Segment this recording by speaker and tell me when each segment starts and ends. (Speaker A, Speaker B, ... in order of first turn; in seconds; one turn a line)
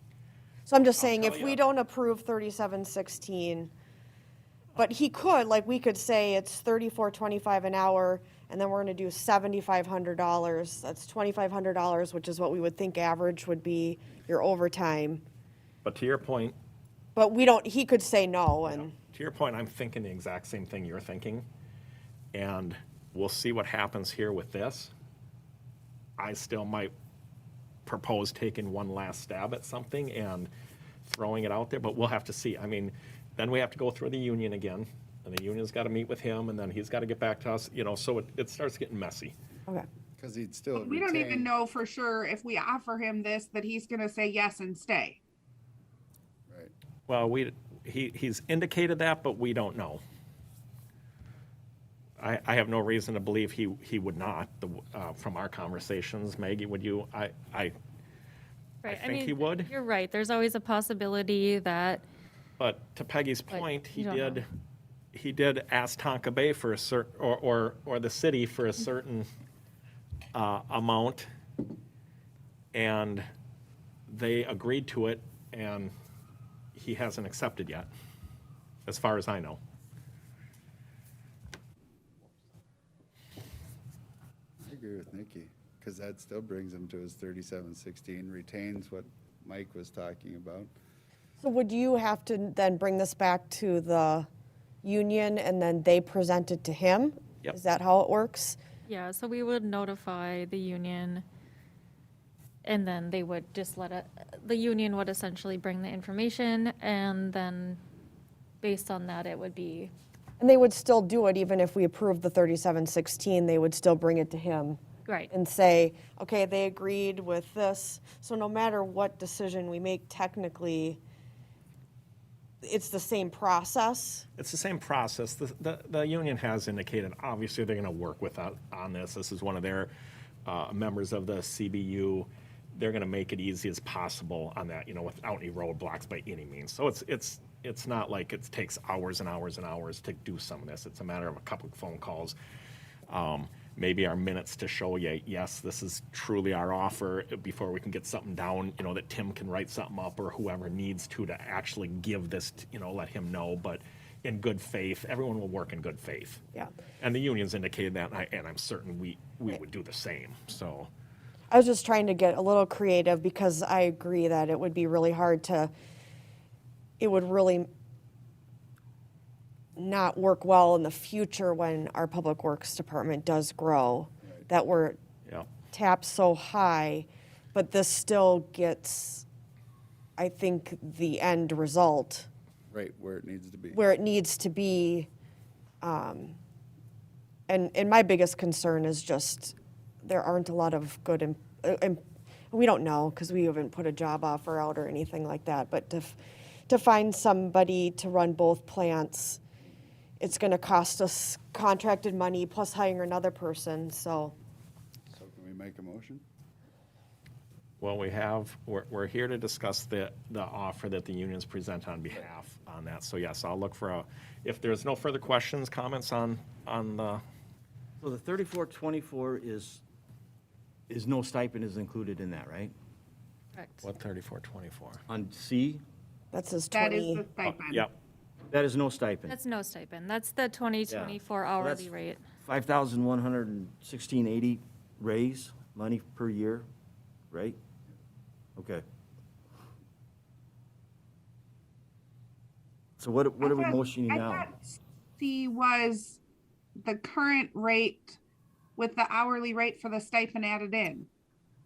Speaker A: 0.7-3.7
Speaker B: 1.0-1.6
Speaker A: 4.8-15.2
Speaker B: 15.8-16.6
Speaker A: 17.2-18.9
Speaker B: 18.7-21.5
Speaker B: 22.3-24.9
Speaker B: 26.2-26.9
Speaker B: 27.9-30.5
Speaker B: 31.1-39.4
Speaker C: 40.2-41.5
Speaker D: 40.8-45.2
Speaker B: 47.1-50.0
Speaker B: 52.2-57.7
Speaker E: 58.8-62.0
Speaker B: 58.9-59.7
Speaker B: 62.6-64.5
Speaker E: 63.5-64.4
Speaker B: 65.1-69.3
Speaker B: 70.3-71.3
Speaker B: 72.7-73.3
Speaker B: 74.1-75.9
Speaker B: 76.8-77.9
Speaker B: 78.9-79.6
Speaker C: 84.6-90.7
Speaker A: 91.4-94.3
Speaker A: 94.8-98.6
Speaker E: 98.9-101.2
Speaker E: 102.6-107.8
Speaker E: 108.6-109.9
Speaker A: 110.4-114.8
Speaker A: 115.3-121.0
Speaker A: 122.6-124.3
Speaker B: 124.4-129.9
Speaker B: 130.5-142.4
Speaker B: 143.1-156.4
Speaker B: 157.0-160.9
Speaker A: 161.5-165.7
Speaker A: 167.0-167.7
Speaker A: 169.8-175.0
Speaker A: 175.7-179.3
Speaker A: 180.2-182.3
Speaker C: 182.7-183.8
Speaker A: 183.7-185.1
Speaker A: 185.8-186.4
Speaker A: 187.5-196.2
Speaker A: 196.7-199.4
Speaker A: 200.2-204.3
Speaker C: 205.1-206.2
Speaker B: 207.8-217.2
Speaker F: 218.0-219.8
Speaker F: 220.9-222.7
Speaker E: 223.5-223.9
Speaker B: 223.8-225.0
Speaker F: 225.1-225.8
Speaker A: 226.3-227.2
Speaker D: 226.7-227.8
Speaker B: 227.4-227.9
Speaker F: 228.5-229.4
Speaker E: 229.3-232.2
Speaker F: 230.9-231.9
Speaker F: 232.4-236.7
Speaker F: 237.3-237.6
Speaker F: 238.6-238.8
Speaker F: 243.0-244.5
Speaker D: 243.5-246.2
Speaker D: 246.8-248.2
Speaker D: 248.8-251.1